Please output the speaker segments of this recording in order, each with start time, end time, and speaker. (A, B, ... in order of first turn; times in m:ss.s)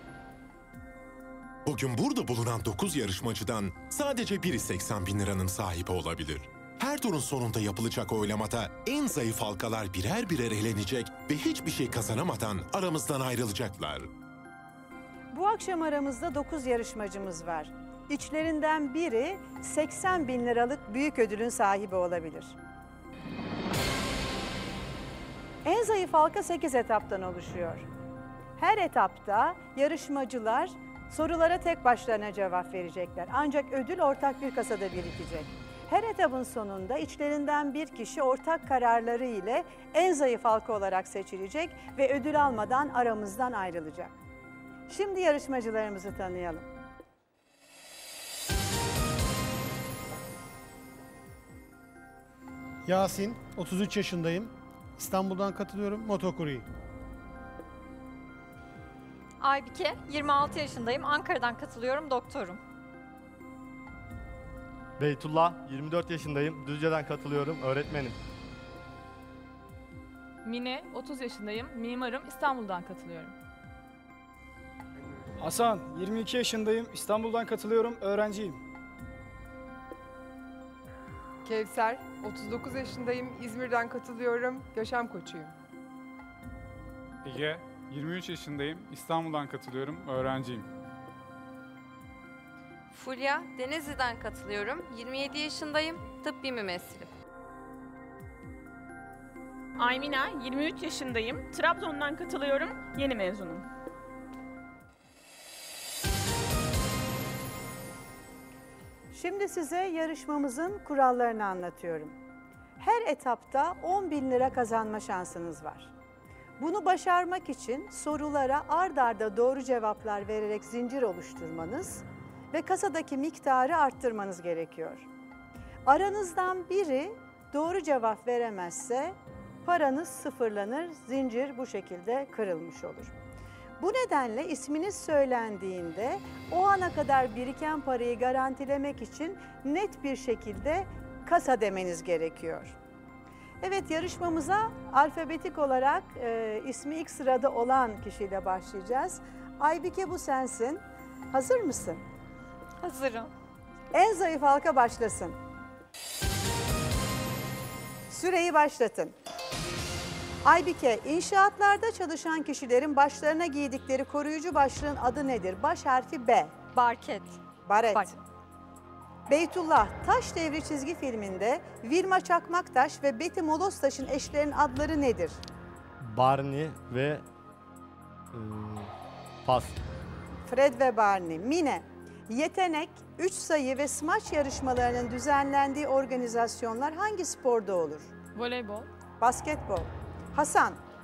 0:01.6-0:14.1 A
0:15.3-0:22.6 B
0:25.6-0:27.9 B
0:28.6-0:44.2 B
0:44.9-0:46.7 B
0:52.9-0:56.7 C
0:59.4-1:02.6 D
1:05.0-1:08.2 E
1:10.4-1:13.3 F
1:15.4-1:18.6 G
1:21.4-1:25.5 H
1:27.2-1:30.7 I
1:32.9-1:37.1 J
1:39.8-1:43.7 K
1:49.1-1:52.1 B
1:52.8-1:55.9 B
1:56.6-2:05.0 B
2:05.9-2:13.1 B
2:13.8-2:22.8 B
2:23.6-2:32.0 B
2:32.8-2:33.3 D
2:33.9-2:35.4 B
2:38.1-2:39.1 B
2:40.4-2:46.6 B
2:46.7-2:47.4 D
2:47.7-2:48.2 B
2:49.3-2:55.4 B
2:56.0-2:57.2 E
2:58.3-2:58.9 E
2:59.4-2:59.8 E
3:00.5-3:08.1 B
3:08.3-3:08.9 F
3:09.2-3:10.8 B